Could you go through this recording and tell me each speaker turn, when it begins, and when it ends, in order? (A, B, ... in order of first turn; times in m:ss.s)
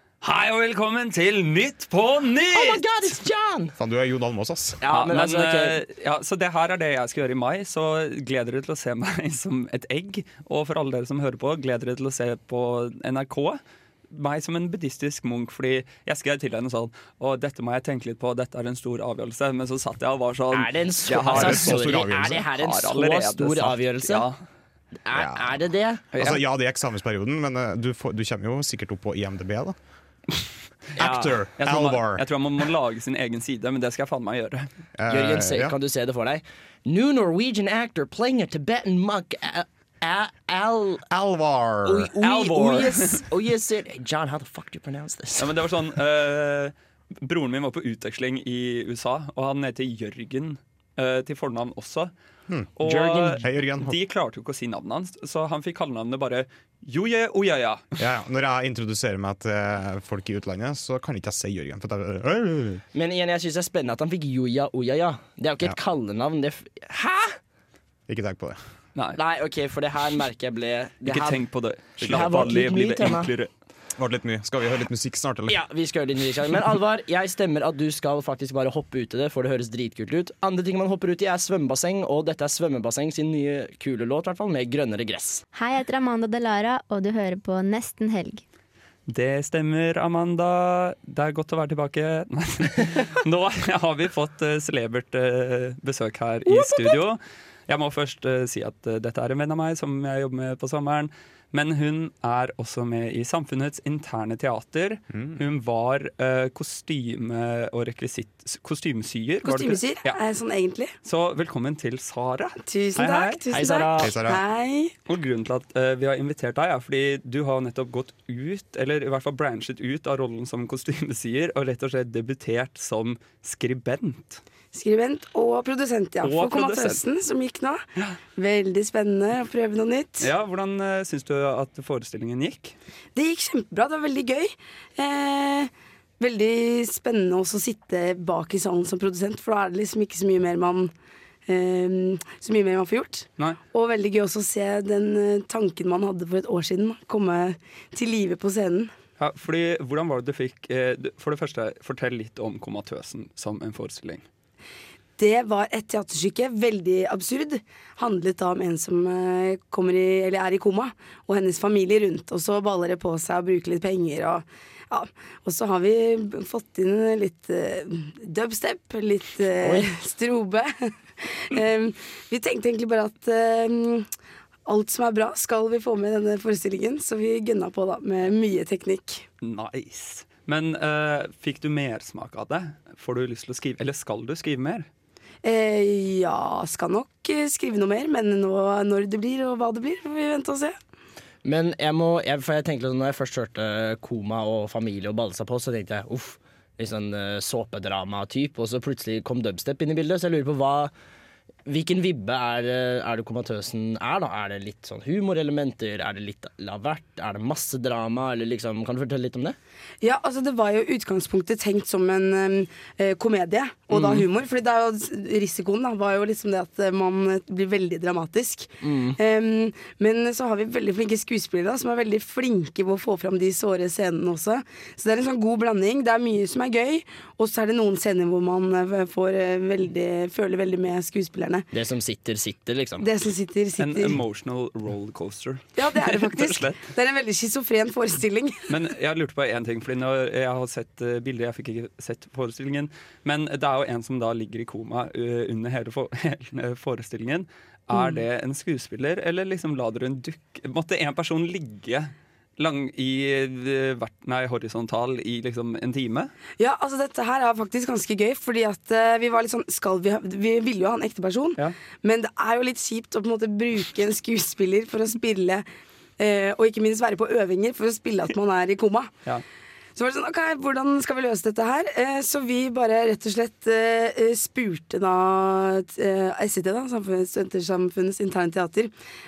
0:00.2-0:02.8 A
0:02.5-0:03.8 B
0:03.8-0:04.8 C
0:04.8-0:05.8 B
0:04.9-0:24.4 A
0:20.5-0:24.3 B
0:21.3-0:22.4 C
0:25.0-0:26.0 B
0:25.2-0:25.5 C
0:26.1-0:26.4 A
0:26.2-0:29.8 C
0:31.0-0:31.4 B
0:31.0-0:32.2 C
0:31.6-0:34.7 A
0:35.0-0:35.7 C
0:35.1-0:41.1 B
0:41.1-0:42.1 C
0:41.8-0:45.6 B
0:42.2-0:43.3 A
0:45.4-0:52.1 A
0:52.8-0:58.0 A
0:52.8-0:53.4 B
0:53.4-0:54.0 C
0:58.0-1:02.8 C
1:02.9-1:07.4 B
1:08.1-1:08.6 C
1:09.2-1:11.4 B
1:11.1-1:13.5 A
1:12.0-1:13.3 B
1:14.0-1:15.6 C
1:15.5-1:25.4 B
1:25.5-1:28.4 D
1:29.1-1:50.2 A
1:45.1-1:45.4 C
1:49.4-1:50.9 E
1:51.0-1:53.4 A
1:52.7-1:54.9 E
1:53.5-1:54.2 B
1:54.0-1:54.4 C
1:55.1-2:04.4 A
2:04.7-2:07.8 E
2:06.2-2:07.0 A
2:08.4-2:10.3 E
2:10.2-2:12.8 A
2:13.2-2:20.9 E
2:21.5-2:28.9 E
2:29.2-2:34.2 A
2:35.2-2:54.1 E
2:49.6-2:49.9 B
2:54.7-2:59.2 E
2:59.4-3:04.9 A
3:05.4-3:10.8 E
3:11.4-3:20.9 B
3:21.7-3:29.6 B
3:30.0-3:51.7 E
3:38.8-3:39.2 B
3:51.7-3:53.1 B
3:53.0-3:54.2 E
3:53.8-3:56.8 A
3:55.8-3:58.7 E
3:58.7-4:16.3 A
4:16.6-4:25.6 E
4:26.2-4:29.1 E
4:30.0-4:38.9 E